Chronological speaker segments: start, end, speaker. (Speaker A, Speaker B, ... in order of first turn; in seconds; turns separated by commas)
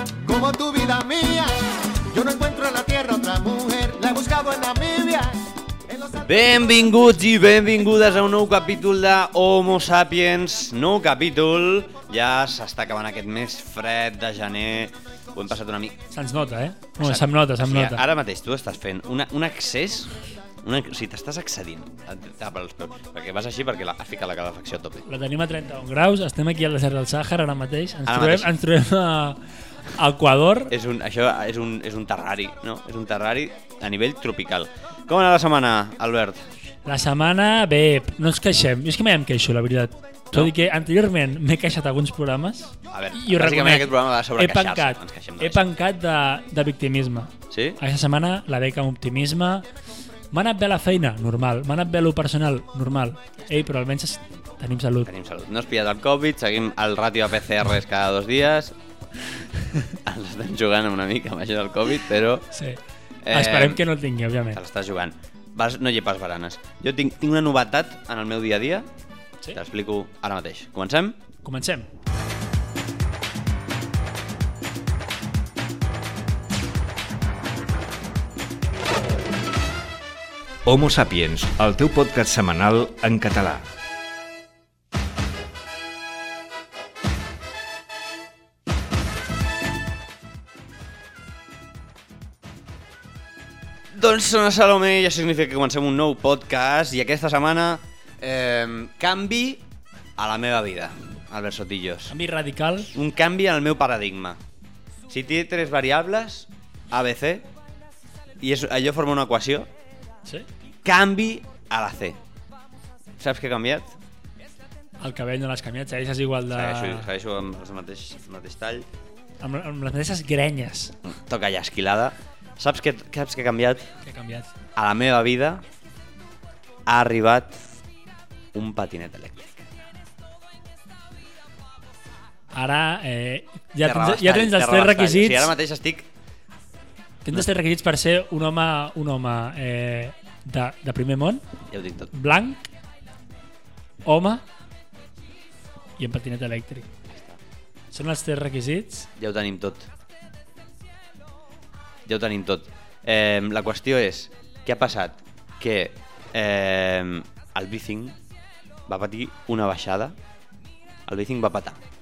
Speaker A: 0.2-6.4, Speaker B: 6.2-16.0, Speaker C: 16.1-18.0, Speaker B: 17.0-25.0, Speaker C: 25.1-30.7, Speaker B: 28.1-28.5, Speaker B: 30.7-36.5, Speaker C: 36.8-49.6, Speaker B: 42.9-45.6, Speaker B: 47.5-47.8, Speaker C: 50.3-55.1, Speaker B: 55.0-58.8, Speaker C: 59.6-59.9, Speaker B: 60.0-62.5, Speaker C: 62.5-64.6, Speaker B: 63.2-63.8, Speaker B: 64.5-68.9, Speaker B: 69.5-71.2, Speaker C: 71.4-71.9, Speaker D: 80.6-83.7, Speaker B: 93.9-99.6, Speaker B: 100.2-102.1, Speaker C: 102.1-102.9, Speaker B: 102.9-104.4, Speaker B: 105.1-107.5, Speaker B: 108.4-109.7, Speaker B: 110.8-112.2, Speaker B: 113.2-113.9, Speaker C: 115.0-117.1, Speaker B: 116.5-118.9, Speaker C: 119.4-121.0, Speaker B: 121.0-123.9, Speaker C: 124.0-124.5, Speaker B: 124.8-125.6, Speaker B: 126.9-127.7, Speaker B: 128.5-129.7, Speaker C: 132.5-135.5, Speaker B: 133.8-136.1, Speaker C: 137.2-141.4, Speaker B: 141.7-142.1, Speaker C: 142.1-142.6, Speaker C: 144.0-144.4, Speaker C: 146.0-146.9, Speaker B: 147.1-147.4, Speaker C: 147.9-149.1, Speaker B: 149.2-149.9, Speaker B: 152.1-158.2, Speaker B: 158.9-160.2, Speaker B: 161.1-161.8